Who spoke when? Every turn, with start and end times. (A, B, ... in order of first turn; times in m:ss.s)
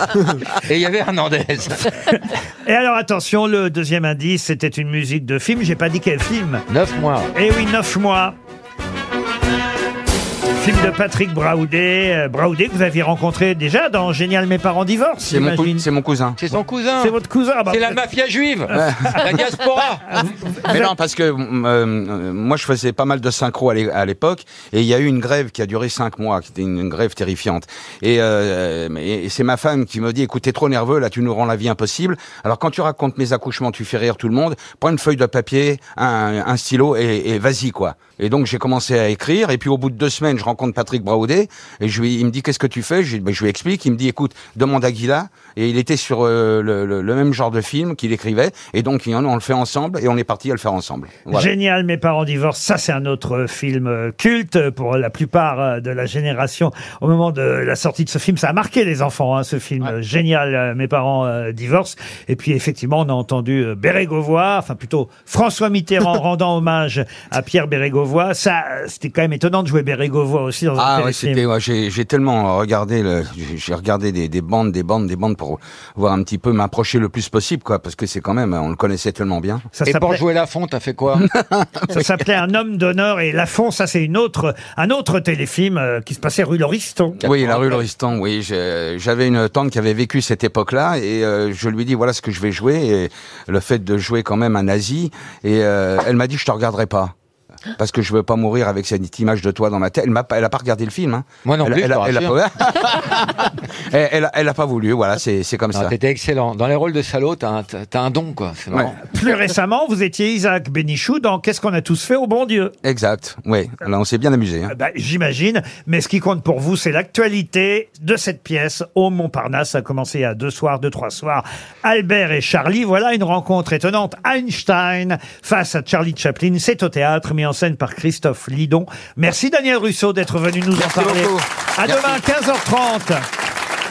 0:00.6-0:01.9 A
0:02.6-0:06.6 B
0:06.7-0:07.3 A
0:07.3-0:08.4 B
0:10.6-0:15.8 B
0:15.2-0:16.4 C
0:16.4-0:20.2 A
0:17.0-0:18.0 B
0:18.8-0:19.1 C
0:18.8-0:19.4 B
0:20.6-0:51.5 C
0:51.3-1:11.4 B
1:10.8-1:19.7 C
1:19.7-1:20.2 B
1:19.8-1:21.2 A
1:21.3-1:22.0 C
1:21.9-1:27.2 B
1:27.2-1:27.8 A
1:27.2-1:37.1 C
1:37.8-1:43.2 C
1:41.4-1:42.4 A
1:43.9-1:45.9 C
1:45.7-1:48.9 A
1:49.0-1:52.7 B
1:52.8-1:54.7 C
1:54.7-2:13.2 B
2:10.8-2:12.2 A